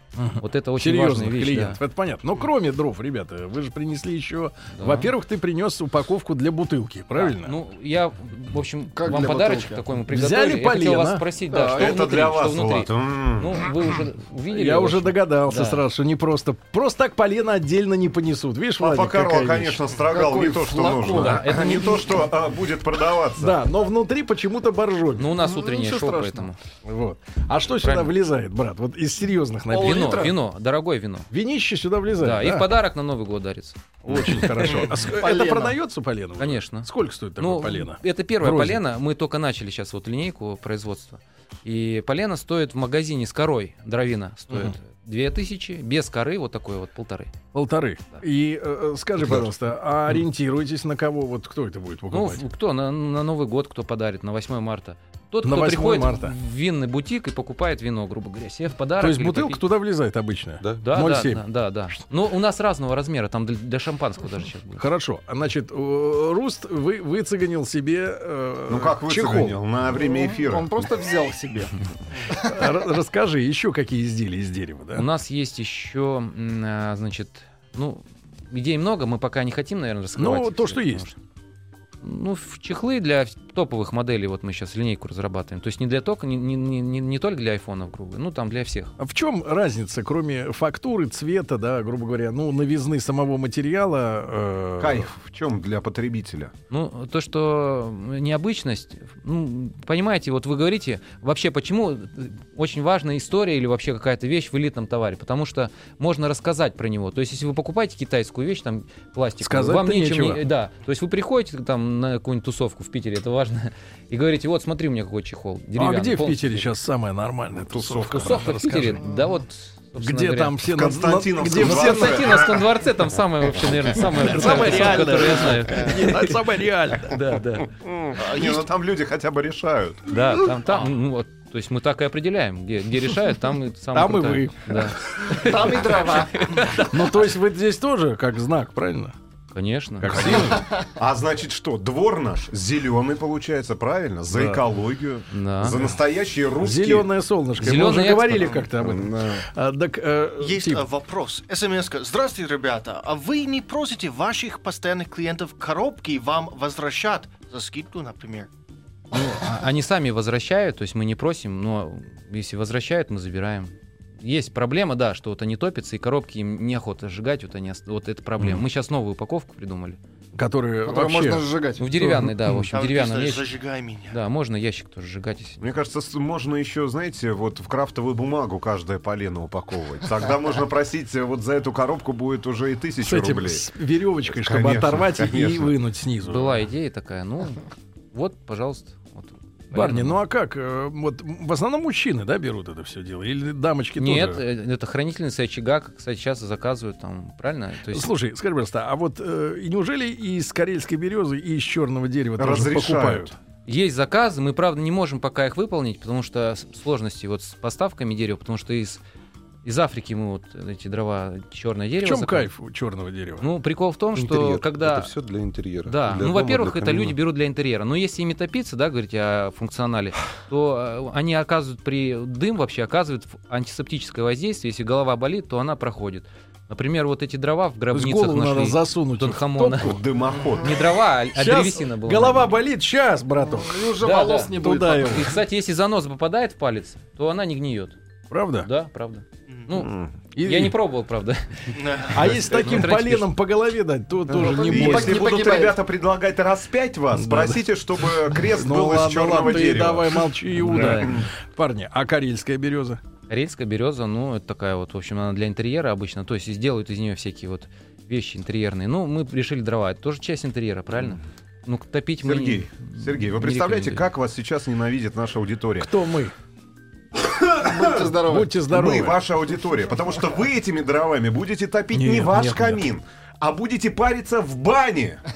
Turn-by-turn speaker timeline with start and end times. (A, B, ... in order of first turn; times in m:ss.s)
0:00.2-0:07.6 A
0:00.4-0:01.8 B
0:04.7-0:05.1 B
0:07.1-0:15.8 B
0:08.9-0:09.9 C
0:10.1-0:11.2 A
0:11.5-0:13.6 D
0:14.5-0:19.8 A
0:18.8-0:23.6 D
0:20.1-0:22.2 C
0:21.1-0:22.0 B
0:23.4-0:30.3 A
0:25.2-0:26.6 B
0:27.8-0:28.1 B
0:29.7-0:30.4 C
0:29.8-0:31.3 B
0:31.3-0:32.7 A
0:32.2-0:34.9 B
0:34.0-0:38.8 A
0:35.1-0:35.8 C
0:36.4-0:47.4 B
0:47.5-0:52.4 A
0:52.1-0:59.6 B
0:55.4-0:56.4 A
0:59.0-1:01.9 A
1:00.6-1:00.9 E
1:00.8-1:04.8 B
1:04.8-1:09.6 A
1:08.7-1:10.8 D
1:09.9-1:12.7 C
1:12.4-1:15.1 A
1:14.9-1:21.2 B
1:20.2-1:21.1 A
1:22.0-1:28.9 B
1:29.0-1:35.1 A
1:34.8-1:36.5 D
1:36.7-1:56.7 B
1:49.4-1:50.4 A
1:55.8-1:59.0 A
1:57.6-1:58.5 D
1:58.1-2:00.6 B
2:00.0-2:02.6 A
2:00.7-2:02.7 D
2:01.6-2:06.5 B
2:04.2-2:07.2 A
2:07.0-2:07.7 B
2:07.8-2:10.1 D
2:08.2-2:08.6 F
2:10.1-2:17.2 B
2:13.9-2:15.4 A
2:15.2-2:16.8 C
2:16.9-2:19.1 A
2:19.5-2:20.6 B
2:20.0-2:20.6 A
2:20.1-2:27.1 D
2:20.5-2:20.9 C
2:24.3-2:24.6 A
2:25.3-2:25.8 B
2:26.6-2:30.8 A
2:27.6-2:28.5 B
2:28.4-2:28.7 F
2:28.8-2:29.4 D
2:30.4-2:38.5 F
2:39.1-2:50.0 B
2:50.4-2:52.7 A
2:50.8-2:51.9 C
2:51.8-2:53.5 B
2:52.7-2:54.2 F
2:54.1-2:55.6 B
2:55.6-3:03.7 D
3:03.0-3:06.6 A
3:04.2-3:05.7 D
3:06.2-3:10.2 B
3:09.7-3:14.4 A
3:14.0-3:18.1 B
3:17.9-3:23.4 A
3:22.4-3:23.3 D
3:23.7-3:29.0 B
3:29.6-3:32.5 B
3:32.0-3:33.5 A
3:33.4-3:35.1 B
3:34.1-3:37.2 E
3:35.8-3:50.0 B
3:47.9-3:50.0 A
3:49.8-3:50.8 D
3:50.6-3:52.5 B
3:51.3-3:54.0 A
3:53.4-3:55.4 C
3:54.0-3:58.0 B
3:54.5-3:55.4 A
3:58.3-3:58.7 A
3:58.6-4:03.3 B
3:59.8-4:00.1 D
4:00.3-4:00.8 A
4:01.7-4:02.7 F
4:02.1-4:05.2 A
4:04.3-4:11.3 D
4:04.4-4:05.8 C
4:07.1-4:13.0 A
4:10.6-4:11.2 B
4:13.3-4:24.1 B
4:22.2-4:25.9 D
4:25.8-4:26.3 A
4:27.2-4:28.1 D
4:27.6-4:28.6 C
4:28.3-4:29.2 A
4:28.7-4:35.2 D
4:31.9-4:32.8 A